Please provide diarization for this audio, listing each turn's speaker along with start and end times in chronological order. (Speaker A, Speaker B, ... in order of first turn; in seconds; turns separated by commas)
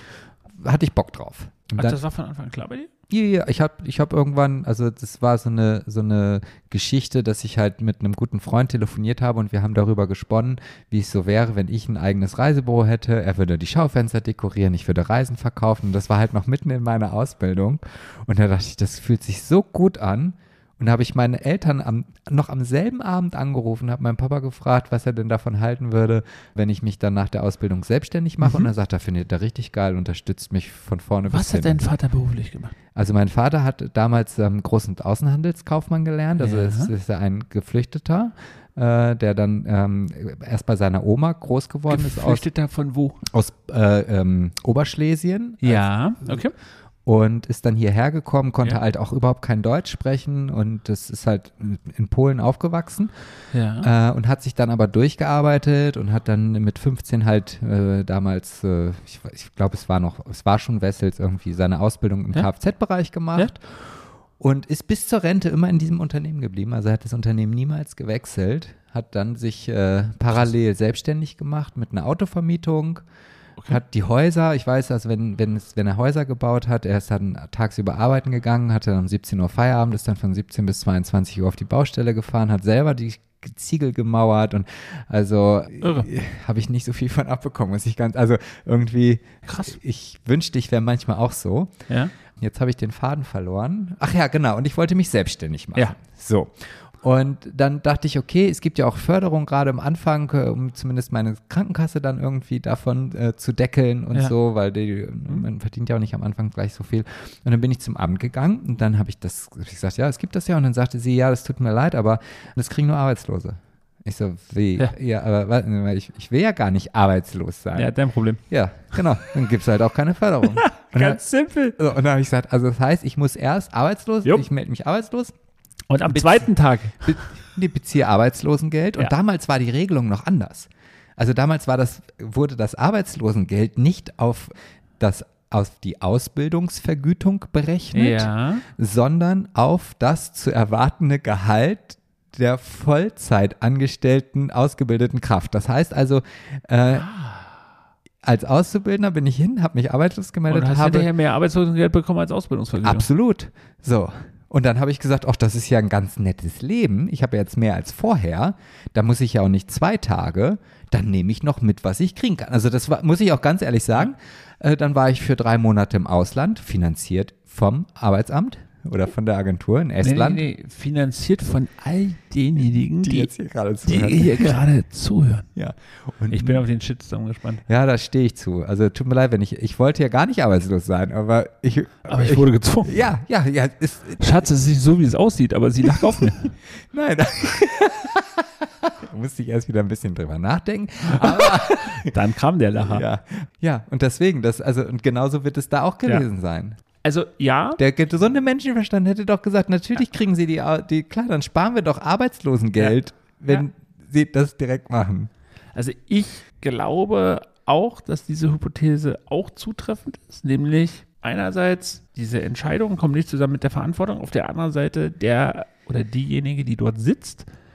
Speaker A: 0.5-2.0, Speaker B: 1.8-2.9, Speaker A: 3.1-31.8, Speaker B: 28.4-28.7, Speaker B: 31.3-32.7, Speaker A: 32.9-42.5, Speaker B: 36.4-36.9, Speaker B: 41.9-43.2, Speaker A: 43.2-46.4, Speaker B: 45.6-46.5, Speaker A: 47.0-53.1, Speaker B: 53.5-53.9, Speaker A: 53.8-73.0, Speaker A: 73.7-91.7, Speaker B: 85.8-86.1, Speaker B: 89.5-89.8, Speaker B: 91.9-92.1, Speaker A: 92.3-117.9, Speaker B: 117.7-118.4, Speaker A: 118.5-121.2, Speaker B: 120.4-121.8, Speaker A: 121.8-125.3, Speaker B: 125.9-127.2, Speaker A: 126.0-126.5, Speaker A: 127.0-147.1, Speaker B: 137.9-138.7, Speaker B: 146.9-147.6, Speaker A: 148.2-151.1, Speaker B: 150.5-153.1, Speaker A: 152.8-170.4, Speaker B: 170.0-173.3, Speaker A: 173.0-174.6, Speaker B: 173.8-175.5, Speaker A: 175.6-176.6, Speaker B: 176.3-177.6, Speaker A: 177.7-184.5, Speaker B: 182.1-183.1, Speaker B: 184.2-186.5, Speaker A: 185.9-186.2, Speaker A: 186.9-192.1, Speaker B: 191.0-193.0, Speaker A: 192.8-196.8, Speaker B: 197.0-197.8, Speaker A: 197.8-205.3, Speaker B: 205.7-217.4